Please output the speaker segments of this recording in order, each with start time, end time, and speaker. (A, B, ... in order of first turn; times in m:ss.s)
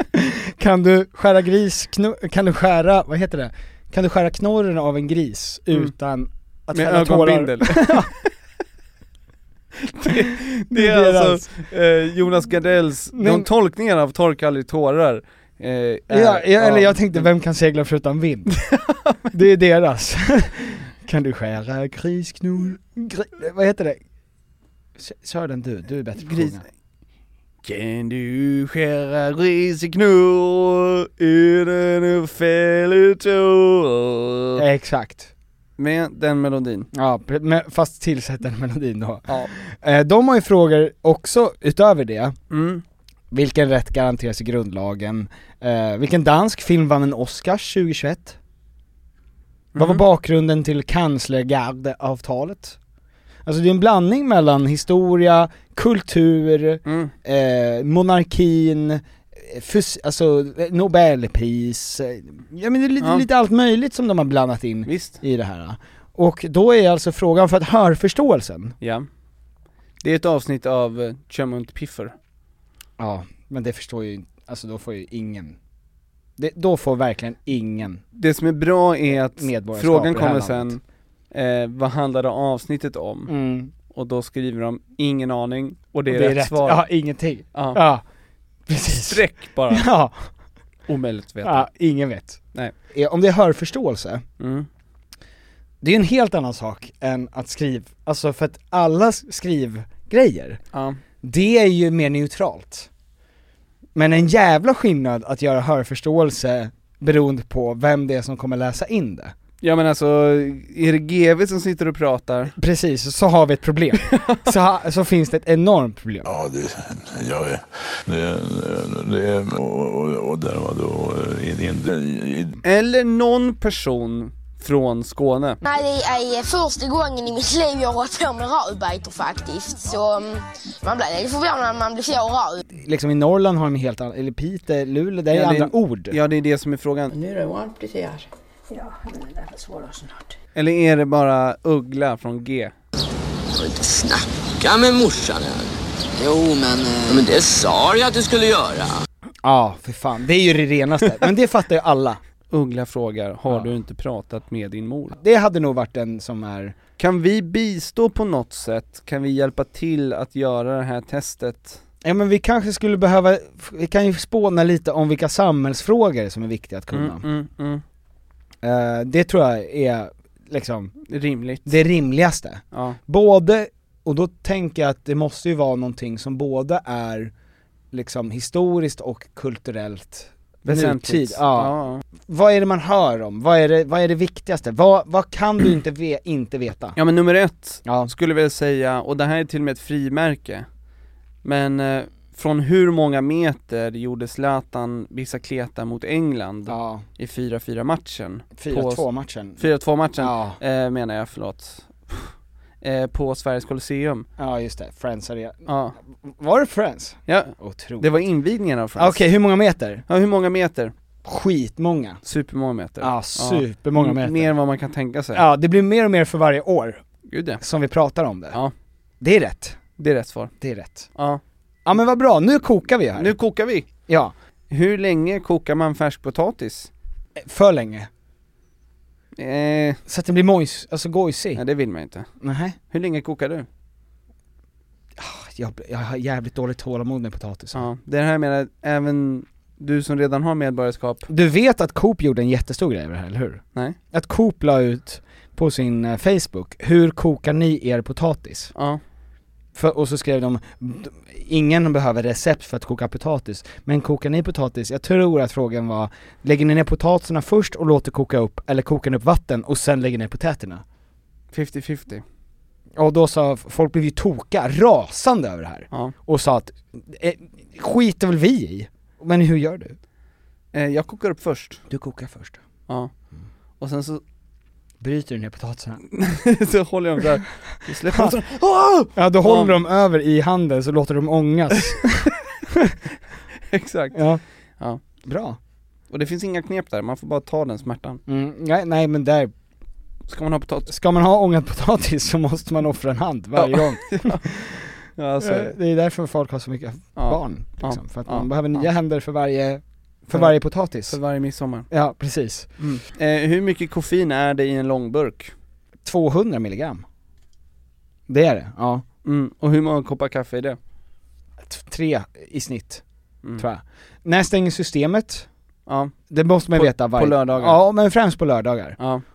0:00.2-0:08.1 A
0:06.7-0:08.1 B
0:09.8-0:17.3 B
0:10.7-0:11.4 A
0:13.1-0:13.5 A
0:16.1-0:18.6 A
0:18.5-0:19.2 B
0:19.3-0:24.0 A
0:25.0-0:26.6 A
0:26.2-0:26.7 B
0:27.6-0:34.6 B
0:34.6-0:35.3 A
0:35.8-0:36.9 B
0:36.9-0:42.4 A
0:42.5-0:42.8 B
0:43.3-0:48.4 A
0:49.7-0:50.0 B
0:49.8-0:52.8 A
0:53.4-1:08.8 A
0:56.9-0:57.1 B
1:04.9-1:05.2 B
1:08.8-1:09.1 B
1:10.0-1:12.2 B
1:13.0-1:15.6 A
1:16.4-1:18.0 A
1:18.2-1:20.8 B
1:19.4-1:20.8 A
1:21.3-1:23.3 B
1:23.3-1:23.7 A
1:23.9-1:26.8 B
1:26.1-1:28.0 A
1:27.5-1:27.8 B
1:28.7-1:30.2 A
1:28.9-1:29.9 B
1:30.9-1:31.7 B
1:31.4-1:34.2 A
1:34.4-1:34.7 B
1:35.8-1:40.6 A
1:40.7-1:41.0 B
1:41.2-1:42.9 A
1:44.0-1:49.4 A
1:49.6-1:52.6 B
1:52.6-1:56.3 A
1:54.1-1:54.5 B
1:56.2-2:02.6 C
2:02.6-2:05.6 B
2:05.6-2:12.6 D
2:12.7-2:16.2 A
2:15.3-2:17.1 B
2:17.1-2:20.2 E
2:20.6-2:22.7 B
2:23.5-2:29.0 F
2:29.4-2:32.2 A
2:32.5-2:35.2 B
2:35.2-2:36.8 A
2:37.0-2:41.8 B
2:42.0-2:47.2 A
2:46.9-2:47.8 B
2:48.6-2:50.9 A
2:51.1-2:51.8 B
2:51.7-2:57.3 A
2:52.7-2:53.0 B
2:57.9-3:07.0 A
3:00.6-3:02.0 B
3:07.0-3:10.7 B
3:07.9-3:08.1 A
3:11.4-3:24.3 B
3:16.7-3:17.0 A
3:18.6-3:19.6 A
3:20.2-3:20.6 A
3:24.4-3:25.6 A
3:25.7-3:26.0 B
3:26.2-3:28.1 A
3:27.3-3:29.3 B
3:29.0-3:30.0 A
3:30.1-3:30.9 B
3:31.2-3:32.2 A
3:32.2-3:35.4 B
3:33.0-3:34.5 A
3:35.3-3:37.0 A
3:37.3-3:37.6 B
3:37.6-3:38.6 A
3:39.2-3:39.8 A
3:40.0-3:40.5 B
3:40.6-3:41.1 A
3:41.2-3:41.4 B
3:41.9-3:43.3 A
3:43.2-3:43.9 B
3:44.1-3:44.3 A
3:44.7-3:46.9 B
3:47.4-3:48.1 A
3:49.4-3:50.0 B
3:50.1-3:51.6 A
3:51.6-3:52.3 B
3:52.4-3:52.8 A
3:52.9-3:53.7 B
3:55.2-3:57.8 A
3:57.7-4:01.3 B
4:01.3-4:08.7 A
4:08.8-4:09.0 B
4:09.8-4:20.8 A
4:21.5-4:22.2 B
4:23.0-4:30.0 A
4:30.7-4:31.8 B
4:31.9-4:32.6 A
4:33.8-4:34.2 B
4:35.0-4:36.0 A
4:36.1-4:39.8 B
4:38.1-4:38.4 A
4:39.1-4:42.2 A
4:43.7-4:44.2 B
4:44.1-4:44.4 A
4:45.2-4:45.6 A
4:46.1-4:48.2 B
4:48.3-4:49.5 A
4:50.3-4:50.9 B
4:50.9-4:54.8 A
4:53.6-4:54.5 B
4:55.2-4:55.8 B
4:55.4-5:01.2 A
4:57.2-4:58.9 B
5:00.3-5:01.9 B
5:01.9-5:02.7 A
5:02.8-5:05.5 B
5:06.0-5:07.0 A
5:08.3-5:09.0 A
5:09.2-5:10.8 B
5:11.6-5:13.0 A
5:13.6-5:15.5 A
5:15.9-5:16.1 B
5:16.3-5:19.0 A
5:16.7-5:17.8 B
5:19.0-5:19.2 B